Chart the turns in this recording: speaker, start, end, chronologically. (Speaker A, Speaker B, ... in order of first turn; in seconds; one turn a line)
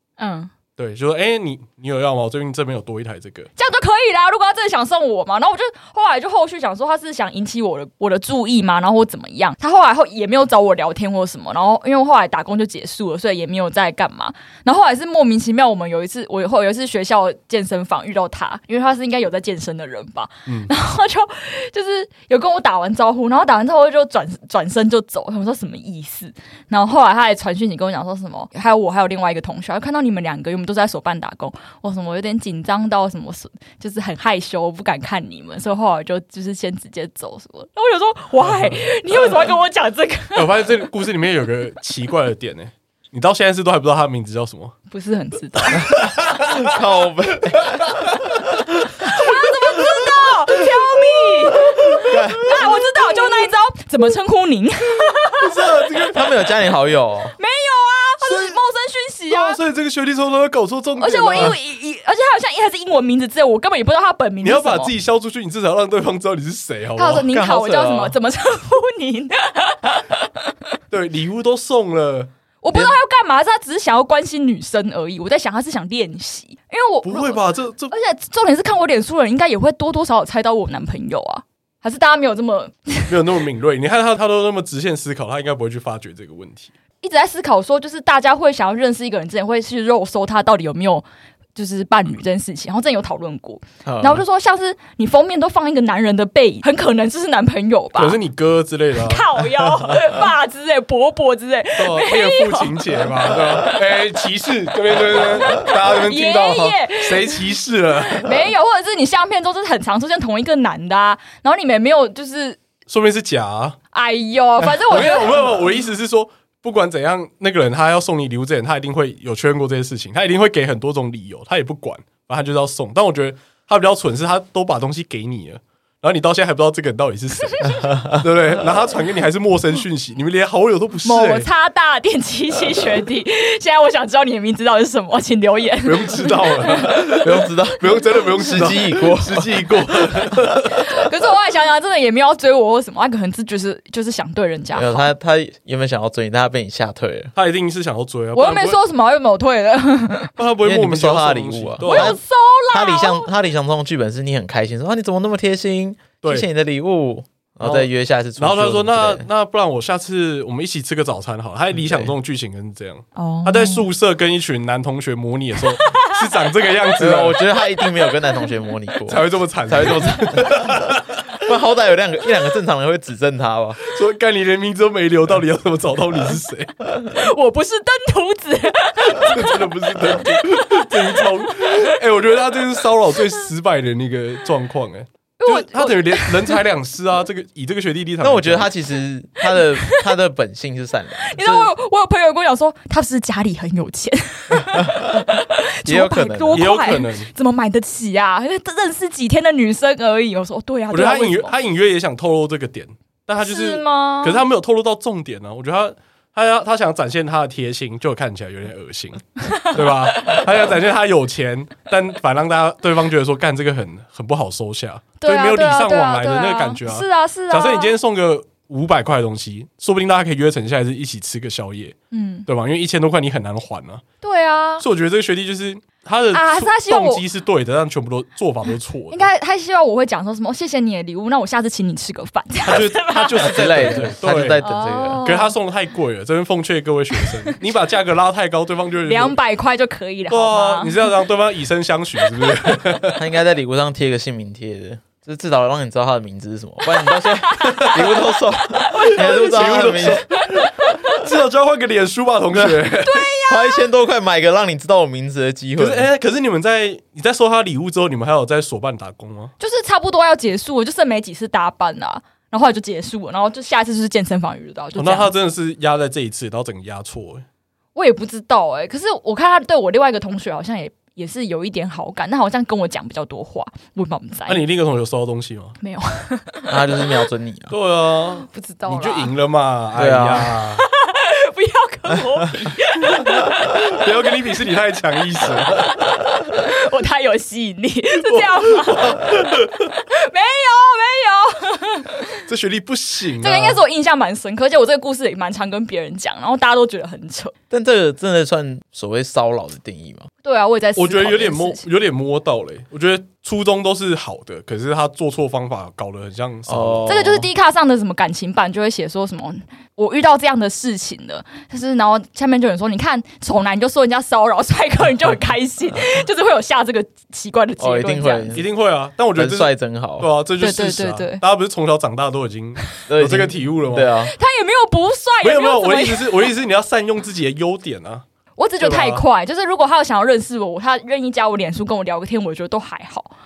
Speaker A: 0.2-0.5
Speaker B: 0.8-3.5
Speaker A: 3.6-40.5
Speaker B: 20.5-20.7
Speaker B: 38.4-38.8
Speaker B: 40.3-44.7
Speaker A: 44.9-46.0
Speaker B: 45.8-46.6
Speaker C: 45.9-48.6
Speaker B: 47.5-48.5
Speaker A: 48.9-55.6
Speaker C: 52.0-52.7
Speaker B: 55.4-56.3
Speaker C: 56.1-57.4
Speaker A: 57.4-59.6
Speaker B: 58.2-58.6
Speaker B: 59.3-61.5
Speaker A: 61.0-64.9
Speaker B: 64.4-67.3
Speaker A: 67.0-70.5
Speaker C: 67.2-68.1
Speaker B: 70.9-72.3
Speaker A: 72.6-77.4
Speaker C: 72.7-73.0
Speaker B: 77.0-77.9
Speaker A: 77.9-83.1
Speaker B: 83.1-86.7
Speaker A: 87.0-98.2
Speaker C: 93.8-94.2
Speaker B: 98.0-99.4
Speaker A: 99.0-104.0
Speaker B: 101.8-108.5
Speaker A: 105.1-107.5
Speaker A: 108.0-112.6
Speaker B: 112.9-113.8
Speaker A: 113.9-115.5
Speaker B: 114.9-131.5
Speaker A: 127.6-127.9
Speaker A: 131.0-137.2
Speaker B: 135.8-140.7
Speaker C: 136.8-140.4
Speaker A: 140.7-145.0
Speaker C: 144.7-147.3
Speaker B: 147.3-148.8
Speaker A: 148.3-150.3
Speaker B: 150.4-152.2
Speaker C: 150.6-159.3
Speaker A: 151.8-153.3
Speaker B: 157.6-167.4
Speaker C: 161.8-162.1
Speaker A: 163.2-163.8
Speaker A: 165.7-166.2
Speaker C: 167.0-173.8
Speaker A: 167.8-168.4
Speaker B: 169.1-171.2
Speaker B: 173.8-176.7
Speaker A: 177.0-181.9
Speaker B: 179.1-188.7
Speaker A: 185.4-186.6
Speaker C: 188.2-191.7
Speaker A: 189.4-190.1
Speaker A: 191.2-201.5
Speaker C: 194.6-195.2
Speaker C: 195.8-196.7
Speaker B: 196.5-197.3
Speaker B: 200.9-221.9
Speaker A: 203.4-204.4
Speaker A: 209.4-210.4
Speaker A: 215.2-217.9
Speaker A: 222.1-222.5
Speaker B: 222.5-224.0
Speaker A: 224.2-224.8
Speaker B: 224.8-229.2
Speaker A: 226.3-227.2
Speaker A: 229.1-233.6
Speaker B: 232.6-234.6
Speaker C: 233.4-235.2
Speaker A: 234.6-235.6
Speaker B: 235.2-239.3
Speaker A: 237.2-237.5
Speaker A: 239.1-241.1
Speaker B: 240.3-243.2
Speaker C: 243.2-250.2
Speaker A: 247.0-251.2
Speaker B: 247.8-248.1
Speaker B: 249.1-253.3
Speaker C: 252.5-252.8
Speaker A: 253.0-253.9
Speaker C: 253.5-256.1
Speaker B: 255.8-259.5
Speaker A: 259.6-265.3
Speaker B: 264.9-267.4
Speaker A: 267.9-274.6
Speaker B: 274.5-275.8
Speaker A: 275.8-277.2
Speaker C: 276.7-277.7
Speaker B: 277.7-280.9
Speaker A: 278.4-279.3
Speaker C: 279.9-280.6
Speaker A: 280.7-284.1
Speaker B: 283.1-286.2
Speaker A: 285.6-292.4
Speaker B: 288.2-289.9
Speaker B: 292.5-293.8
Speaker A: 293.4-297.5
Speaker C: 297.7-300.3
Speaker A: 300.4-301.8
Speaker B: 300.9-307.3
Speaker C: 306.7-307.5
Speaker A: 307.1-318.5
Speaker C: 317.8-318.7
Speaker B: 318.5-324.1
Speaker C: 319.3-320.3
Speaker A: 320.6-321.4
Speaker C: 323.1-324.3
Speaker A: 324.2-326.5
Speaker B: 325.4-328.2
Speaker A: 328.6-333.3
Speaker B: 328.8-329.2